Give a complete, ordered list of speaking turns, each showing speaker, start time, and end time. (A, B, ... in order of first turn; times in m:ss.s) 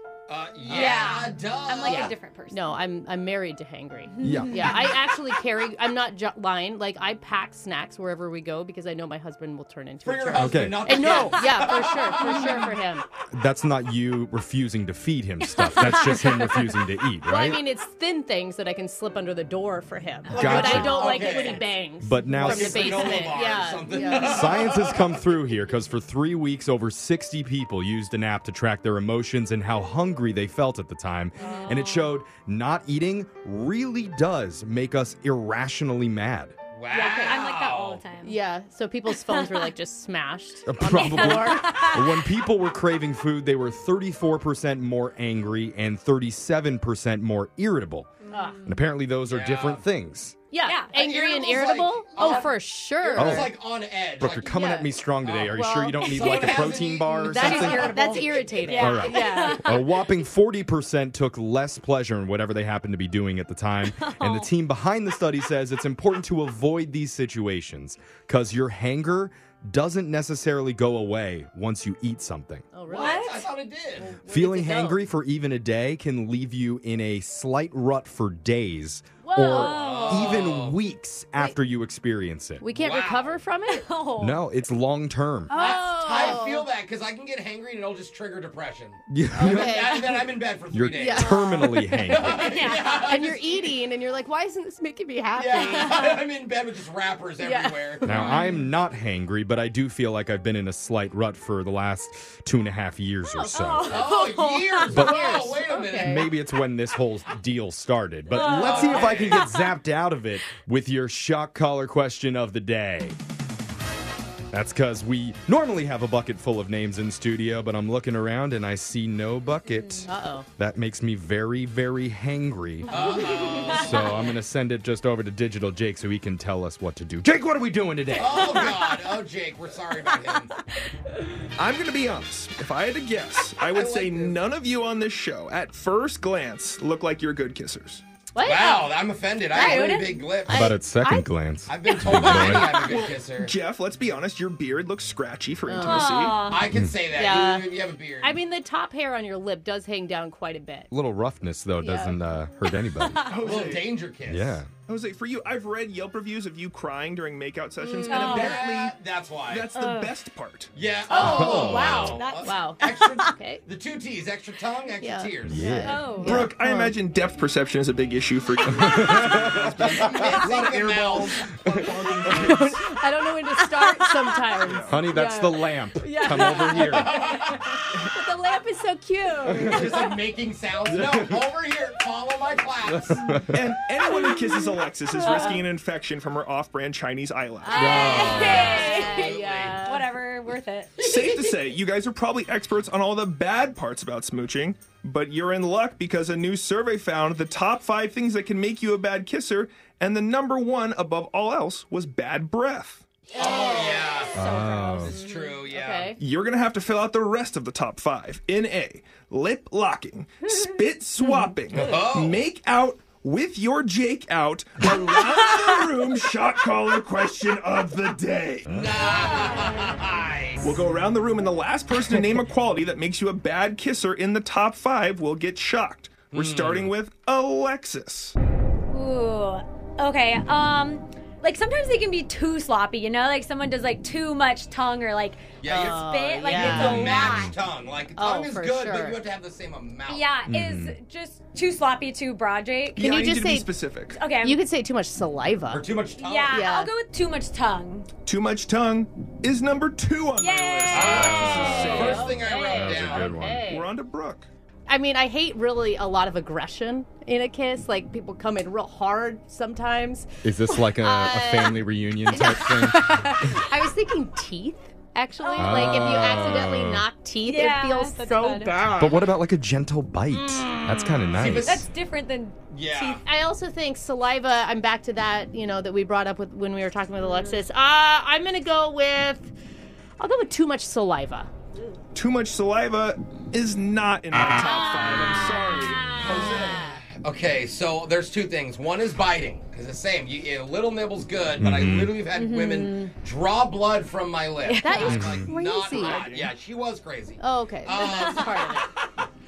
0:00.3-0:02.1 A
0:00.7-0:01.3 B
0:00.7-0:02.8 C
0:01.9-0:13.0 B
0:04.2-0:04.9 C
0:04.2-0:04.7 D
0:10.0-0:12.7 A
0:10.4-0:11.2 D
0:13.3-0:17.6 D
0:15.6-0:24.6 B
0:20.3-0:21.3 D
0:20.3-0:21.7 A
0:20.4-0:21.6 C
0:22.0-0:23.3 D
0:22.4-0:25.1 A
0:24.2-0:36.6 D
0:31.4-0:32.1 C
0:31.4-0:31.7 B
0:36.7-0:38.0 A
0:36.9-0:38.4 C
0:36.9-0:37.4 B
0:38.2-0:41.9 B
0:39.1-0:39.7 C
0:40.7-0:48.1 D
0:40.8-0:42.2 C
0:48.2-0:48.6 C
0:48.3-0:48.6 B
0:48.6-0:50.4 D
0:49.3-0:49.8 A
0:50.5-0:53.5 B
0:50.6-0:50.9 C
0:50.9-0:58.3 A
0:52.2-0:52.5 C
0:53.2-0:53.5 D
0:54.2-0:58.0 D
0:55.5-0:56.6 B
0:56.2-1:00.0 C
0:57.2-0:59.8 B
0:58.7-1:12.6 D
1:03.8-1:04.5 C
1:12.7-1:13.4 B
1:12.9-1:14.1 A
1:12.9-1:13.5 C
1:14.0-1:15.0 B
1:14.2-1:22.6 D
1:19.2-1:20.0 B
1:19.4-1:20.4 C
1:19.6-1:20.8 A
1:22.6-1:23.9 B
1:22.7-1:23.4 A
1:23.7-1:24.4 C
1:24.2-1:25.5 D
1:25.5-1:26.4 C
1:25.5-1:26.7 B
1:25.5-1:33.7 A
1:29.1-1:29.9 D
1:29.4-1:30.2 B
1:30.7-1:32.4 D
1:31.0-1:36.2 B
1:32.4-1:33.1 C
1:35.4-1:38.1 A
1:35.5-1:36.2 C
1:37.4-1:38.6 B
1:38.0-1:44.0 D
1:38.1-1:38.5 C
1:43.5-1:45.1 C
1:43.9-1:46.3 A
1:44.9-1:46.3 B
1:44.9-1:53.2 D
1:48.3-1:49.6 C
1:48.4-1:49.5 A
1:54.5-2:02.9 D
2:00.1-2:00.5 B
2:02.9-2:04.0 A
2:02.9-2:04.0 C
2:02.9-2:03.5 B
2:03.7-2:08.4 D
2:08.1-2:10.5 A
2:08.3-2:08.8 C
2:11.6-2:18.0 E
2:13.7-2:14.4 A
2:18.3-2:18.9 B
2:18.4-2:20.7 A
2:19.5-2:21.3 B
2:19.5-2:20.2 C
2:20.5-2:22.8 D
2:21.7-2:23.6 A
2:22.3-2:26.5 E
2:25.7-2:26.2 B
2:25.8-2:26.6 C
2:26.4-2:28.4 A
2:27.1-2:30.9 B
2:30.9-2:33.2 D
2:31.8-2:32.2 B
2:33.1-2:33.4 C
2:33.2-2:33.9 E
2:33.4-2:34.6 A
2:34.3-2:34.7 D
2:34.8-2:39.0 E
2:37.9-2:38.2 B
2:38.1-2:38.6 C
2:38.1-2:39.7 A
2:39.5-2:40.7 E
2:39.7-2:40.1 C
2:40.8-2:45.8 A
2:41.1-2:43.6 B
2:41.1-2:42.6 C
2:41.2-2:42.2 D
2:45.0-2:46.9 B
2:45.4-2:46.0 D
2:45.8-2:46.4 C
2:46.2-2:52.8 E
2:48.7-2:50.2 D
2:49.4-2:51.5 A
2:52.3-3:00.1 B
2:54.6-2:54.9 E
2:54.9-2:57.1 D
2:56.7-2:57.6 A
2:59.5-2:59.8 D
2:59.6-3:03.4 A
3:00.9-3:01.4 D
3:02.9-3:03.6 D
3:03.5-3:07.8 E
3:04.2-3:05.6 B
3:05.2-3:05.6 C
3:07.6-3:10.1 B
3:07.7-3:11.0 C
3:07.8-3:08.8 D
3:07.8-3:09.9 A
3:11.0-3:23.0 E
3:11.0-3:11.3 A
3:23.3-3:25.2 C
3:23.4-3:24.4 A
3:23.4-3:23.9 B
3:24.3-3:25.2 D
3:25.0-3:26.2 A
3:25.2-3:26.2 B
3:26.2-3:38.8 E
3:31.7-3:32.4 A
3:38.7-3:38.9 D
3:38.7-3:40.6 A
3:40.6-3:48.3 E
3:46.3-3:46.9 A
3:48.9-3:57.5 C
3:55.6-4:00.2 A
3:55.7-3:57.3 B
3:56.6-3:57.5 D
3:58.2-3:59.2 B
4:00.1-4:03.2 C
4:00.5-4:01.0 D
4:03.0-4:04.2 E
4:03.0-4:03.7 B
4:04.2-4:04.6 C
4:04.4-4:05.8 B
4:05.7-4:06.7 A
4:06.2-4:08.1 C
4:06.5-4:06.9 B
4:08.2-4:12.4 E
4:10.4-4:13.0 C
4:10.9-4:12.2 D
4:10.9-4:13.3 A
4:11.8-4:13.8 B
4:12.7-4:13.7 D
4:13.3-4:14.5 E
4:14.9-4:29.0 B
4:20.4-4:23.6 D
4:25.4-4:26.4 C
4:25.6-4:27.0 D
4:27.4-4:28.9 C
4:28.9-4:31.8 D
4:30.5-4:30.7 C
4:31.3-4:31.9 A
4:31.6-4:33.2 C
4:32.7-4:33.2 A
4:33.0-4:39.5 B
4:37.2-4:37.6 C
4:40.2-4:41.5 B
4:42.2-4:46.8 E
4:44.6-4:58.7 A
4:51.6-4:52.2 D
4:52.3-4:53.1 C
4:54.6-4:55.2 C
4:54.8-4:56.3 B
4:55.0-4:55.5 D
4:55.8-4:56.6 E
4:57.4-4:58.9 B
4:58.0-4:58.8 C